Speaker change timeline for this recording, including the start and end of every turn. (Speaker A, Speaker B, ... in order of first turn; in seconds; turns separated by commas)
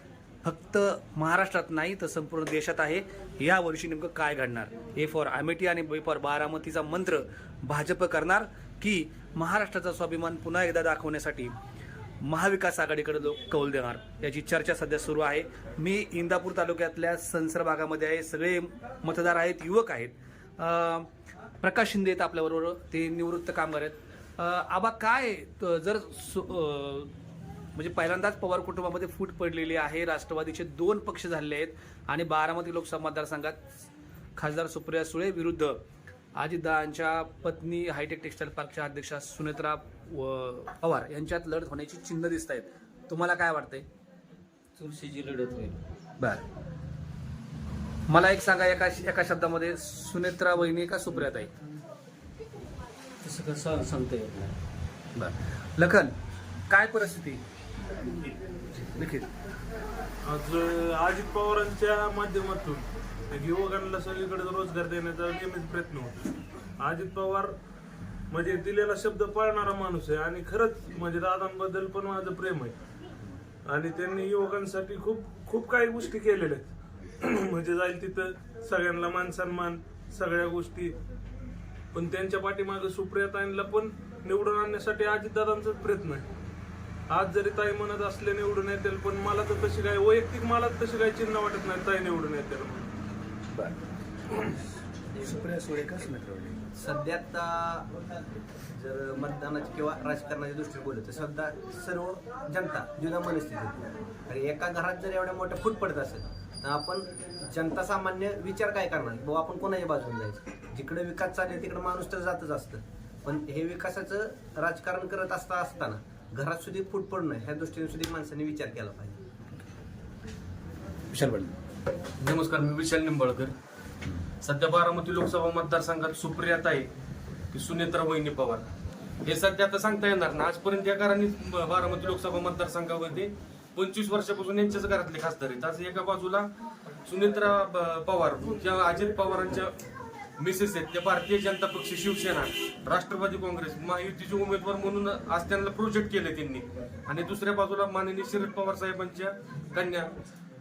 Speaker A: 0.4-11.5, Speaker A: 12.2-21.1, Speaker A: 21.6-27.1, Speaker A: 27.8-33.6, Speaker A: 34.4-35.8, Speaker A: 36.4-43.9, Speaker B: 44.8-45.8, Speaker A: 46.2-46.4, Speaker A: 48.1-51.5, Speaker B: 53.2-54.5, Speaker A: 55.1-56.1, Speaker A: 56.7-57.4, Speaker A: 58.7-59.3, Speaker C: 60.2-67.5, Speaker C: 68.3-72.8, Speaker C: 73.6-80.9, Speaker C: 81.9-86.3, Speaker C: 87.1-92.9, Speaker A: 93.5-93.8, Speaker A: 95.2-96.7, Speaker D: 96.7-97.9, Speaker D: 98.7-119.2, Speaker A: 121.1-121.5, Speaker E: 122.2-123.5, Speaker E: 124.4-126.9, Speaker E: 127.5-128.7, Speaker E: 129.2-136.5, Speaker E: 137.1-139.8, Speaker E: 140.4-150.1